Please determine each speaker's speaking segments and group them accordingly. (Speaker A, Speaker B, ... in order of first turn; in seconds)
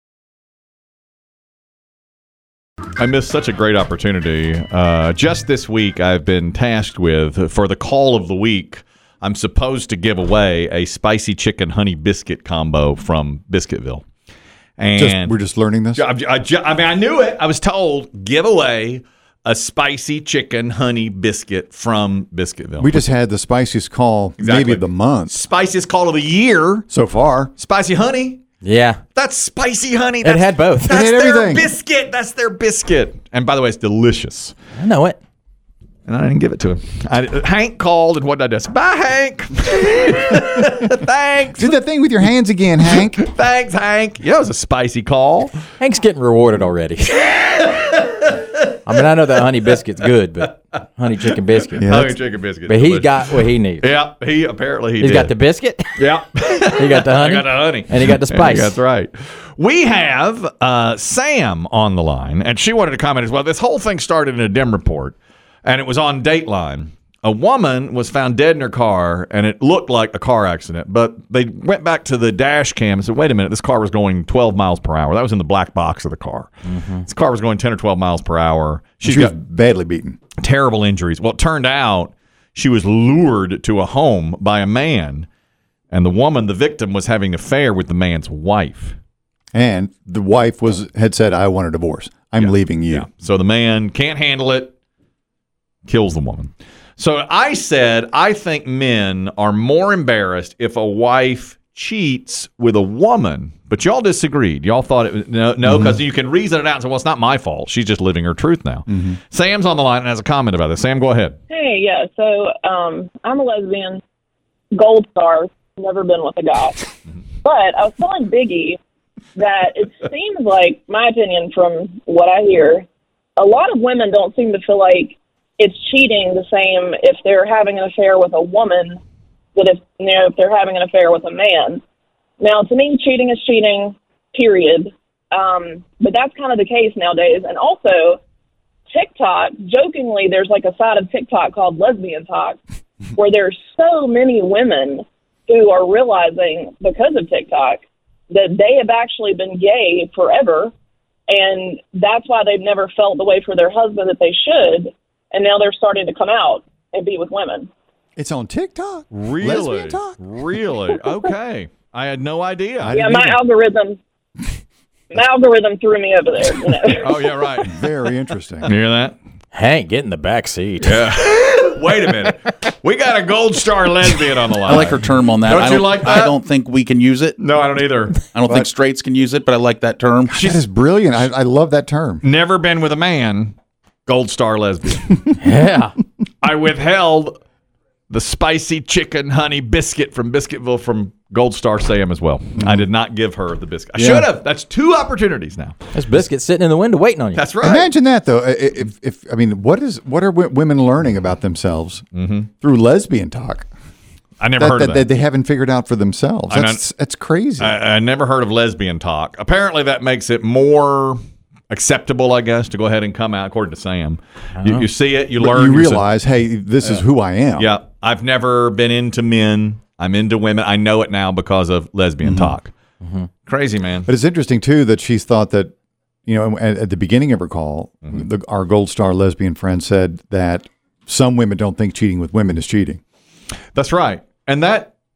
Speaker A: 3.0-14.0, 14.8-15.4, 15.9-23.1, 24.4-26.9, 27.6-28.4, 29.1-34.6, 36.1-41.8, 42.9-45.5, 47.5-48.3, 51.8-53.3, 53.8-55.3, 56.0-76.5, 77.0-79.4, 80.4-85.3, 85.9-89.0, 92.4-94.7, 95.9-111.4, 159.1-163.0, 167.0-167.9, 168.6-169.2, 170.8-176.3, 177.4-178.2, 182.2-183.6, 184.1-185.2, 186.4-187.4, 188.1-195.8, 197.3-197.9, 202.1-202.5, 204.4-205.1, 206.5-206.8, 207.6-216.1, 217.6-222.7, 223.5-224.1, 233.8-234.9
Speaker B: 15.0-16.1, 22.8-25.4, 26.9-27.5, 30.9-31.7, 41.6-43.2, 51.8-52.1, 79.0-80.2, 89.5-93.1, 105.6-106.0, 108.9-109.2, 158.2-160.2, 162.8-163.4, 167.7-168.7, 180.3-182.2, 192.6-192.9, 193.9-194.3, 197.6-202.0, 202.6-203.7, 204.6-207.8, 215.4-217.7, 222.2-222.5, 224.1-225.7, 226.3-233.0
Speaker C: 28.6-29.0, 30.2-31.1, 34.8-35.2, 45.8-47.3, 48.9-52.0, 52.7-53.9, 55.0-56.0, 56.8-58.8, 76.7-77.1, 169.5-171.1, 185.4-185.9, 195.9-197.5, 214.6-214.8, 223.0-223.3
Speaker D: 111.5-114.0, 114.7-116.9, 117.4-118.8, 119.4-129.0, 129.6-131.8, 132.4-138.2, 138.9-142.6, 143.2-150.7, 151.3-157.7, 162.9-164.0, 165.1-167.5
Speaker E: 174.7-177.4, 178.3-180.5